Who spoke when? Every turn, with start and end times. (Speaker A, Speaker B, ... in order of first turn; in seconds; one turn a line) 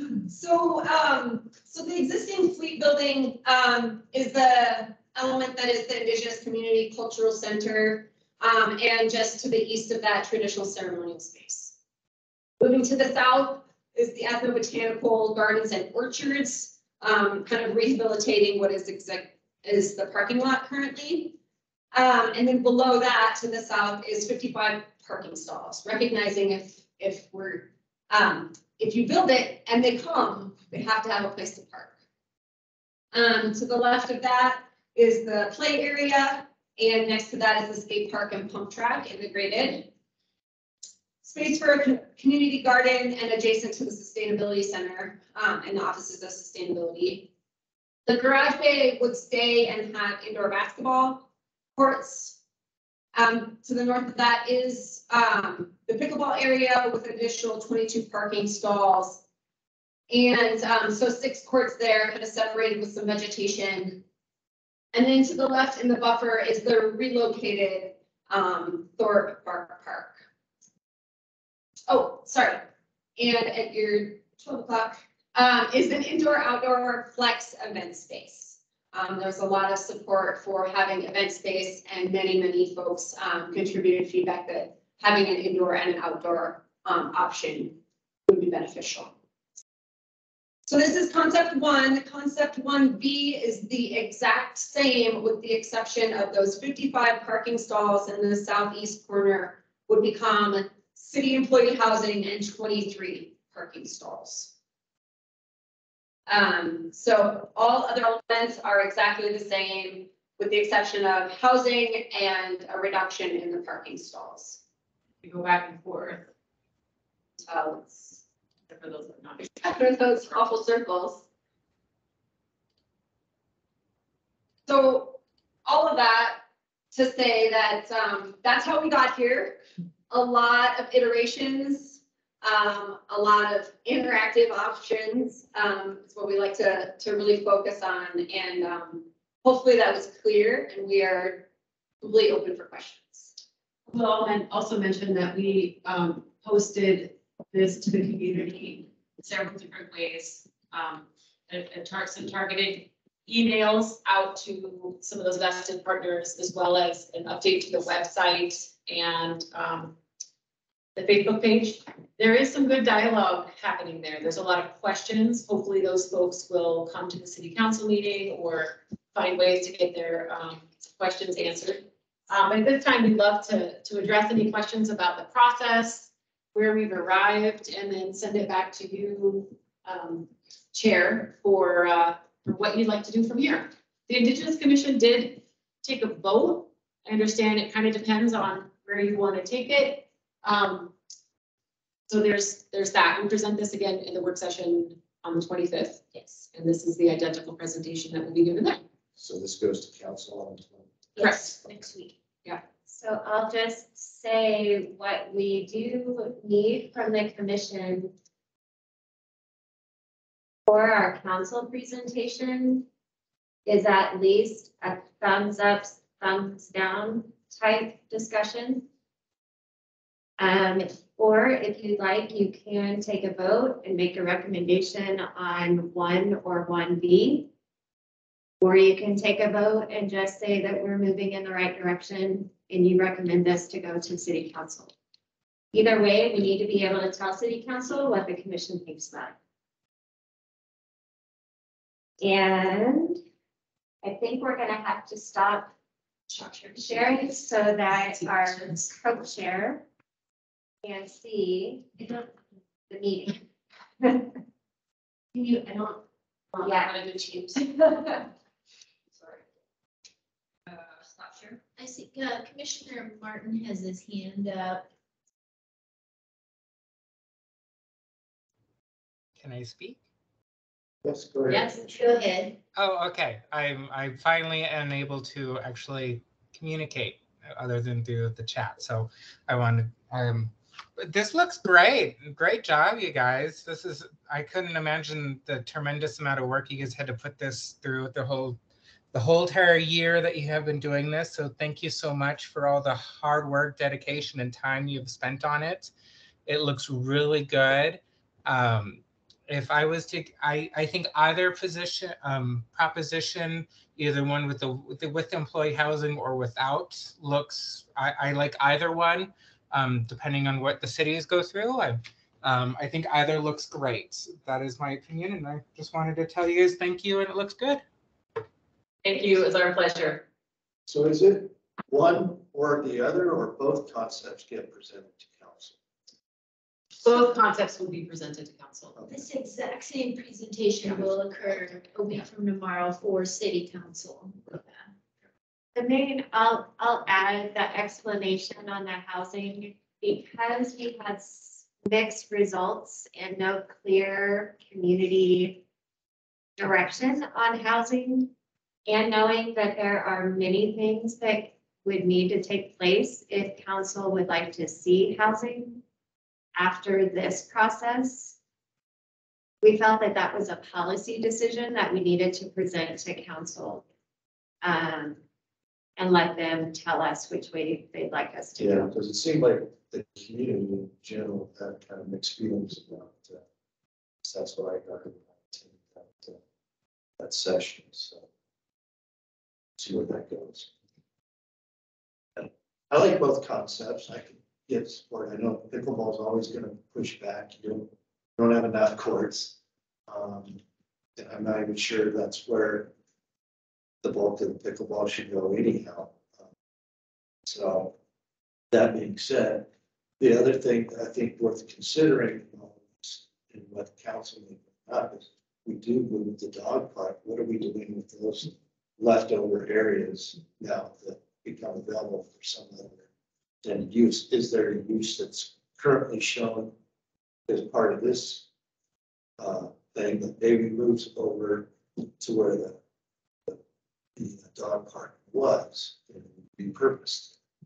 Speaker A: 0.3-11.8
Speaker A: 12.6-21.4
Speaker A: 21.9-31.9
Speaker A: 33.1-39.9
Speaker A: 41.2-47.3
Speaker A: 48.1-52.4
Speaker A: 53.1-59.2
Speaker A: 60.1-64.0
Speaker A: 64.9-70.2
Speaker A: 71.9-89.2
Speaker A: 90.7-104.5
Speaker A: 106.3-114.6
Speaker B: 115.2-116.3
Speaker A: 117.5-118.2
Speaker B: 118.7-119.6
Speaker A: 119.4-121.2
Speaker A: 124.7-141.5
Speaker A: 142.0-143.3
Speaker B: 143.9-160.0
Speaker B: 161.0-190.9
Speaker B: 192.1-198.8
Speaker C: 199.2-200.9
Speaker D: 201.2-201.8
Speaker E: 202.8-208.1
Speaker E: 210.7-212.9
Speaker E: 213.7-218.9
Speaker E: 220.4-227.5
Speaker E: 228.6-234.9
Speaker E: 235.7-239.4
Speaker E: 242.2-243.2
Speaker E: 244.0-245.7
Speaker E: 246.3-249.8
Speaker B: 246.9-247.2
Speaker B: 247.9-248.9
Speaker E: 250.8-252.3
Speaker E: 252.9-253.4
Speaker E: 254.0-254.3
Speaker B: 255.4-255.9
Speaker B: 256.5-257.6
Speaker E: 256.6-257.0
Speaker D: 261.7-264.9
Speaker F: 269.4-270.0
Speaker C: 271.0-272.2
Speaker B: 271.5-271.8
Speaker D: 272.0-272.6
Speaker F: 272.8-288.6
Speaker F: 289.1-295.9
Speaker F: 296.5-317.8
Speaker B: 319.0-320.2
Speaker C: 320.9-325.8
Speaker B: 327.0-329.0
Speaker D: 329.1-334.5
Speaker C: 330.8-331.1
Speaker E: 335.8-345.6
Speaker E: 346.6-348.3
Speaker E: 348.9-355.8
Speaker E: 356.6-358.4
Speaker E: 359.6-363.8
Speaker E: 364.6-365.2
Speaker E: 366.0-368.9
Speaker C: 368.6-373.4
Speaker C: 374.2-376.4
Speaker C: 377.2-378.3
Speaker C: 379.8-380.7
Speaker C: 382.4-389.6
Speaker C: 390.1-390.6
Speaker C: 391.2-392.9
Speaker C: 394.0-396.2
Speaker C: 397.4-397.9
Speaker C: 398.7-399.7
Speaker C: 400.2-413.0
Speaker C: 413.6-416.7
Speaker C: 417.5-418.4
Speaker C: 419.4-422.8
Speaker C: 424.2-427.4